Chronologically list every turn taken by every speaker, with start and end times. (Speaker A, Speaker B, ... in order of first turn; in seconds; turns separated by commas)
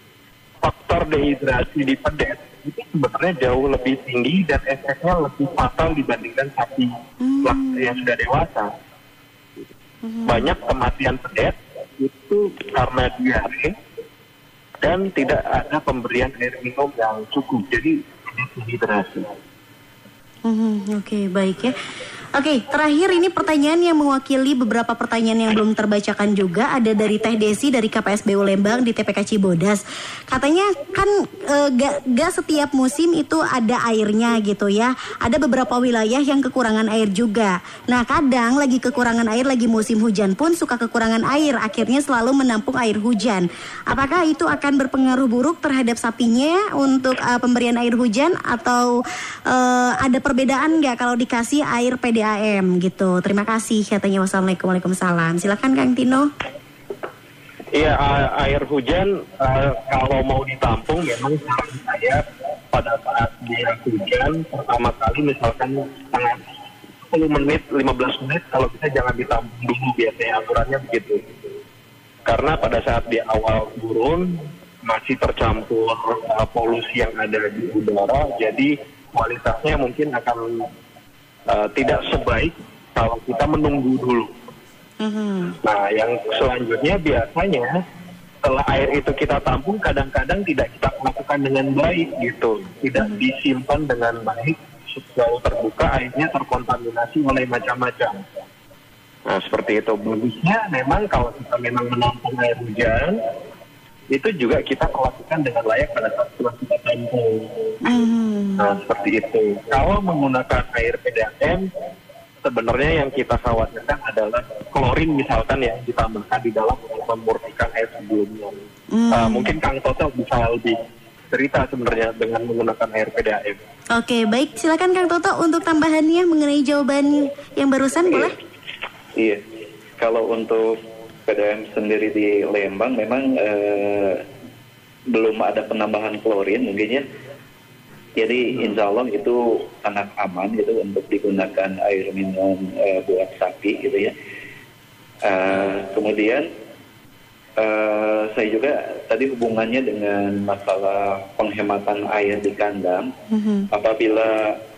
Speaker A: 0.6-8.7, Speaker B: 7.2-8.0, Speaker B: 10.0-10.5, Speaker A: 10.2-13.7, Speaker A: 14.8-19.3, Speaker B: 20.4-21.7, Speaker B: 22.3-48.9, Speaker B: 49.5-56.3, Speaker A: 57.7-62.2, Speaker A: 62.7-66.4, Speaker A: 67.1-71.2, Speaker A: 72.2-80.7, Speaker A: 81.5-84.3, Speaker B: 85.0-85.5, Speaker A: 85.6-87.7, Speaker A: 88.4-98.2, Speaker A: 99.3-103.2, Speaker A: 104.1-108.0, Speaker B: 107.8-108.6, Speaker A: 108.6-111.7, Speaker A: 112.4-118.6, Speaker B: 118.9-119.5, Speaker A: 119.1-120.8, Speaker A: 121.3-123.6, Speaker B: 123.9-128.3, Speaker C: 129.2-129.4, Speaker C: 130.0-134.2, Speaker C: 135.1-137.0, Speaker C: 138.2-144.1, Speaker C: 145.2-146.5, Speaker C: 147.6-153.1, Speaker B: 153.3-153.7, Speaker C: 153.7-154.6